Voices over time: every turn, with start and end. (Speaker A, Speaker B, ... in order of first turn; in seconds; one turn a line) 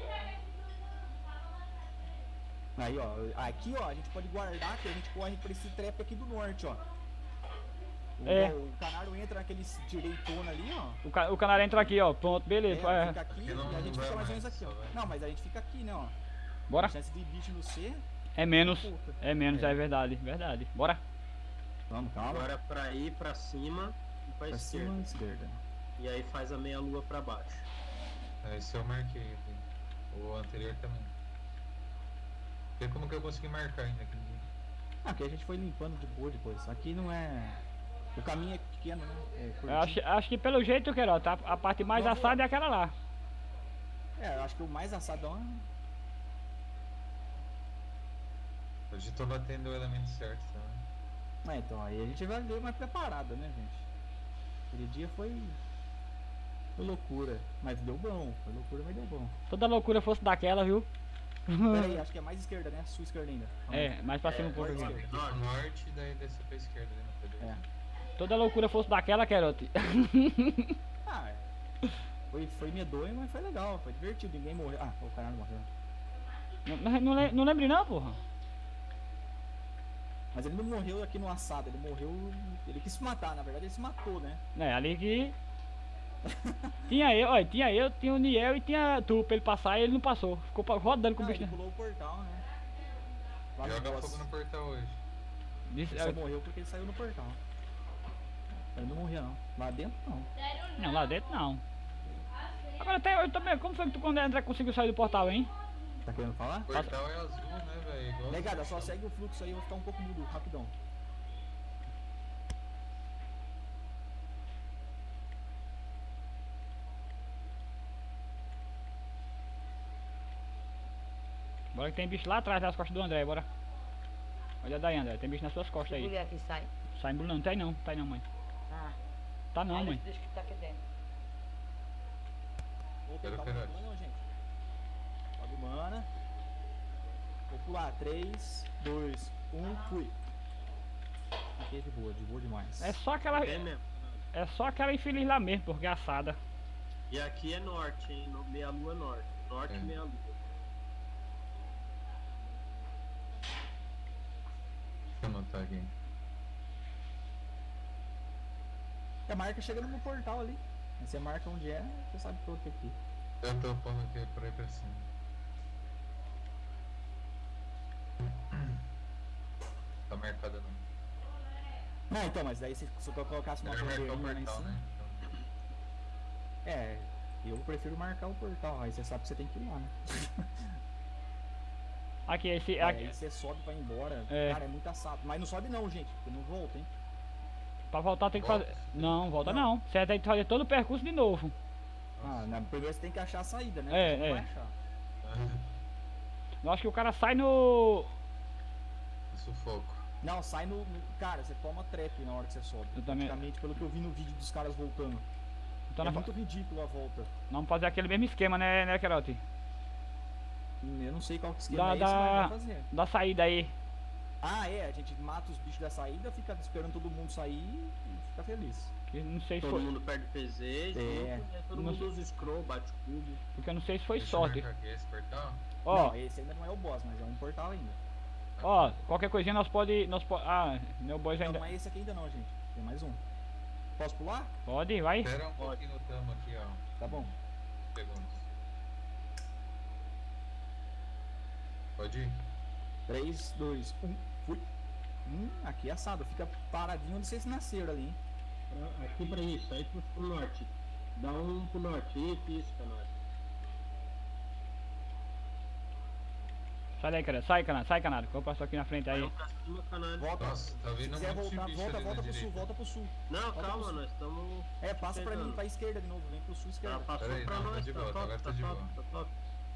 Speaker A: 2.8-6.8
Speaker A: 8.2-11.0
Speaker B: 8.2-8.6
Speaker B: 11.0-13.2
Speaker A: 12.7-16.1
Speaker C: 13.3-15.0
Speaker B: 16.7-16.9
Speaker A: 16.7-19.8
Speaker B: 18.4-21.0
Speaker A: 21.9-22.5
Speaker D: 22.2-25.0
Speaker A: 24.5-25.6
Speaker D: 26.0-27.7
Speaker C: 28.4-31.1
Speaker C: 32.8-34.5
Speaker A: 35.0-37.6
Speaker A: 38.1-40.0
Speaker B: 39.7-42.9
Speaker A: 41.9-42.4
Speaker A: 44.1-45.6
Speaker C: 48.9-50.9
Speaker A: 51.4-53.9
Speaker A: 54.7-55.6
Speaker A: 56.8-59.3
Speaker B: 59.5-60.9
Speaker B: 61.5-62.0
Speaker A: 61.7-63.9
Speaker B: 63.7-64.9
Speaker D: 64.2-65.5
Speaker A: 64.5-65.2
Speaker C: 64.5-67.6
Speaker B: 68.2-70.7
Speaker A: 71.0-71.4
Speaker A: 72.3-75.7
Speaker B: 76.7-78.2
Speaker A: 80.3-84.4
Speaker B: 84.5-85.3
Speaker A: 86.2-86.9
Speaker B: 86.9-91.5
Speaker A: 91.1-92.5
Speaker A: 93.5-94.2
Speaker C: 93.6-95.0
Speaker B: 95.7-96.2
Speaker A: 95.9-97.4
Speaker A: 98.7-100.3
Speaker B: 100.8-101.6
Speaker B: 102.8-105.5
Speaker A: 106.0-106.7
Speaker C: 106.7-109.0
Speaker A: 108.3-110.7
Speaker B: 121.7-123.5
Speaker B: 124.6-126.1
Speaker E: 125.8-126.7
Speaker B: 126.9-128.2
Speaker E: 128.7-129.0
Speaker B: 129.5-130.0
Speaker E: 129.7-130.8
Speaker A: 133.1-134.2
Speaker C: 133.2-133.8
Speaker A: 135.4-136.1
Speaker A: 137.5-140.2
Speaker E: 139.6-140.0
Speaker A: 141.6-143.0
Speaker B: 142.8-143.7
Speaker D: 143.3-144.2
Speaker B: 144.3-146.4
Speaker D: 147.1-150.4
Speaker C: 149.7-149.9
Speaker C: 155.2-155.9
Speaker A: 159.3-163.0
Speaker C: 163.4-165.1
Speaker C: 168.2-168.8
Speaker C: 170.1-170.8
Speaker A: 172.1-174.8
Speaker C: 173.6-175.3
Speaker A: 176.6-180.7
Speaker B: 182.3-183.1
Speaker A: 182.8-186.9
Speaker B: 184.3-184.6
Speaker B: 187.9-191.5
Speaker C: 188.3-189.2
Speaker A: 189.4-189.7
Speaker C: 192.2-192.5
Speaker A: 192.2-194.7
Speaker B: 193.9-194.5
Speaker C: 195.2-195.6
Speaker B: 196.6-198.1
Speaker C: 199.3-200.0
Speaker A: 200.2-205.2
Speaker B: 202.9-203.4
Speaker B: 205.9-206.3
Speaker A: 206.0-207.3
Speaker B: 207.5-209.4
Speaker A: 210.8-212.9
Speaker B: 211.7-213.7
Speaker A: 214.4-218.9
Speaker B: 219.1-219.9
Speaker D: 219.6-223.4
Speaker A: 220.9-221.5
Speaker B: 221.7-222.1
Speaker B: 223.6-224.7
Speaker C: 224.2-225.6
Speaker B: 225.8-226.2
Speaker A: 225.9-228.0
Speaker C: 228.6-229.0
Speaker B: 228.6-231.7
Speaker A: 231.3-233.2
Speaker A: 234.0-234.5
Speaker B: 234.7-235.3
Speaker C: 235.2-237.3
Speaker D: 235.6-235.8
Speaker A: 237.0-237.3
Speaker C: 237.9-238.4
Speaker C: 242.0-242.4
Speaker A: 243.1-244.7
Speaker A: 245.2-248.2
Speaker D: 248.7-253.1
Speaker B: 257.0-259.3
Speaker D: 259.1-260.3
Speaker A: 260.2-264.0
Speaker C: 260.4-262.6
Speaker D: 263.3-265.6
Speaker A: 264.8-267.1
Speaker D: 266.8-269.3
Speaker C: 267.2-268.9